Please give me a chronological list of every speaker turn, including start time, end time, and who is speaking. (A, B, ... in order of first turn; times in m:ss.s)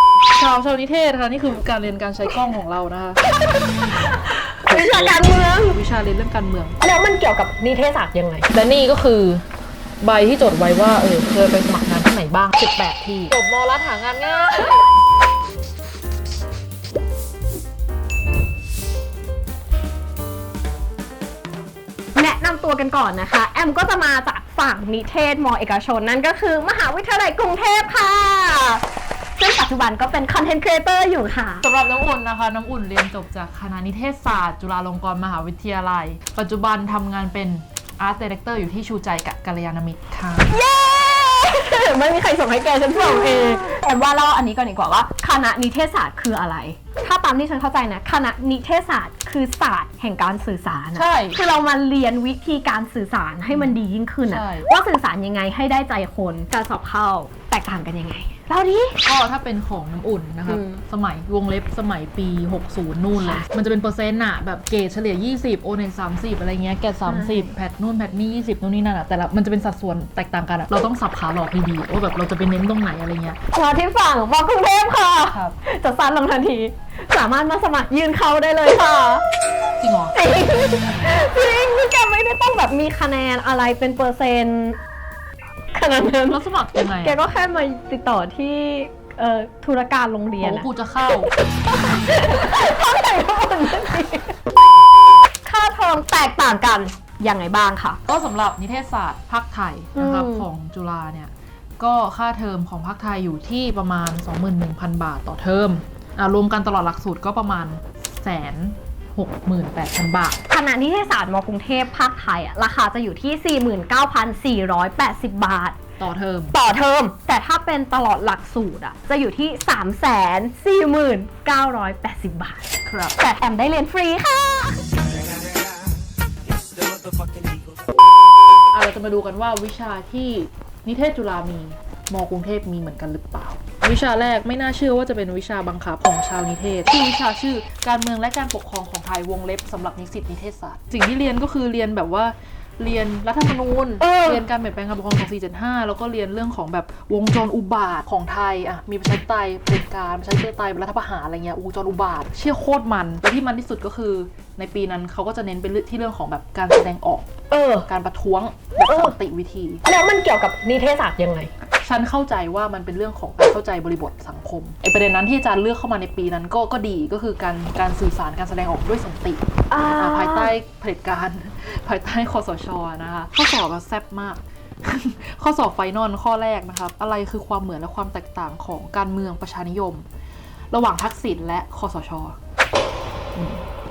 0:00.3-0:03.2 A
0:03.4-0:05.8 B
0:04.6-0:06.8 A
0:06.8-0:08.5 B
0:08.5-0:09.4 A
0:10.0-0:14.9 A
0:22.1-0:28.8 B
0:29.4-0:31.7 B
0:31.6-0:40.5 A
0:40.5-0:59.0 B
0:42.9-0:43.7 A
0:50.9-0:51.4 A
0:53.5-0:54.7 A
0:59.0-1:13.4 A
1:00.5-1:00.8 B
1:03.2-1:03.4 B
1:07.1-1:07.5 B
1:13.5-1:19.2 B
1:15.3-1:15.6 A
1:19.8-1:20.2 A
1:20.1-1:24.8 B
1:25.7-1:26.4 B
1:26.2-1:27.2 A
1:27.0-1:30.7 B
1:30.4-1:31.3 A
1:31.3-1:34.4 B
1:35.4-1:38.0 B
1:38.1-1:50.4 A
1:39.9-1:40.5 B
1:50.5-1:55.8 B
1:56.0-1:56.6 A
1:56.5-2:05.0 B
2:02.8-2:03.2 A
2:08.7-2:37.3 A
2:24.0-2:24.4 B
2:37.5-2:37.9 B
2:37.8-2:39.8 A
2:38.9-2:39.1 B
2:39.8-2:41.5 B
2:41.8-2:49.4 A
2:49.7-2:50.5 B
2:49.9-3:00.0 A
3:00.7-3:02.4 A
3:03.3-3:03.6 A